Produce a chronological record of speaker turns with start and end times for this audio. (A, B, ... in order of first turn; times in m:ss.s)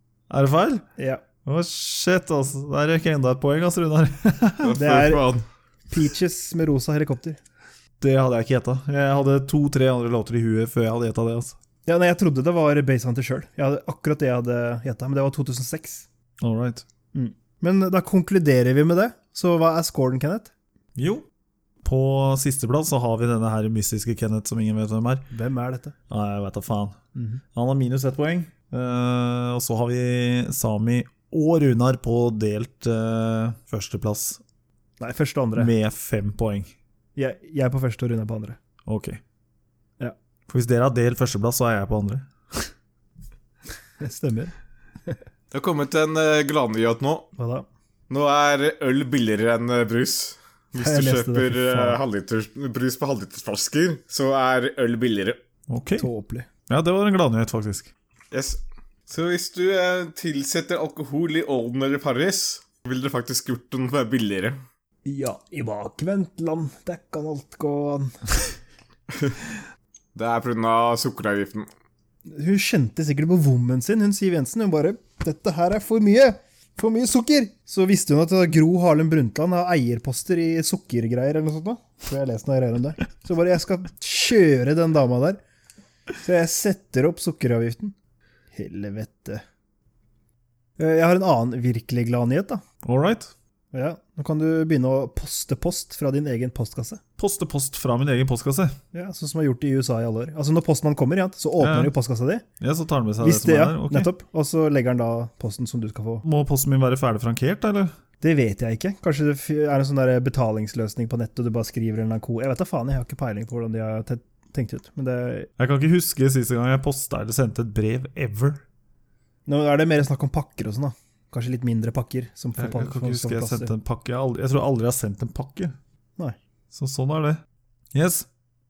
0:00.3-0:00.8 A
0:01.0-0:01.2 B
0:01.4-0:04.8 A
0:04.6-0:05.4 C
0:04.8-0:05.2 B
0:05.9-0:07.4 B
0:08.0-0:11.6 A
0:11.9-0:16.1 B
0:16.4-0:16.8 A
0:17.1-0:20.5 B
0:21.0-0:21.2 A
0:21.8-0:25.3 A
0:25.3-0:26.0 B
0:26.1-0:27.0 A
0:27.2-0:27.4 B
0:27.5-0:34.4 A
0:35.0-0:35.7 B
0:35.6-0:36.7 A
0:37.2-0:38.6 B
0:38.9-0:39.2 A
0:40.5-0:42.6 A
0:44.0-0:44.5 B
0:45.5-0:47.3 C
0:47.4-0:47.7 B
0:48.1-0:55.4 C
0:50.8-0:52.0 B
0:55.7-0:56.1 A
0:56.0-0:56.5 B
0:56.7-0:57.9 A
0:58.3-1:04.6 C
1:05.0-1:08.1 B
1:10.2-1:11.7 C
1:12.3-1:25.4 B
1:26.2-1:28.0 B
1:28.5-1:29.4 B
1:30.8-1:32.6 B
1:32.8-1:33.3 A
1:33.7-1:37.0 B
1:37.2-1:38.8 A
1:38.9-1:42.4 B
1:41.6-1:41.9 A
1:42.6-1:44.1 A
1:43.2-1:46.2 B
1:46.2-1:47.9 A
1:48.2-1:55.5 B
1:55.6-1:58.6 A
1:59.5-2:03.7 B
2:02.6-2:05.8 A
2:06.7-2:07.4 A
2:07.9-2:08.3 A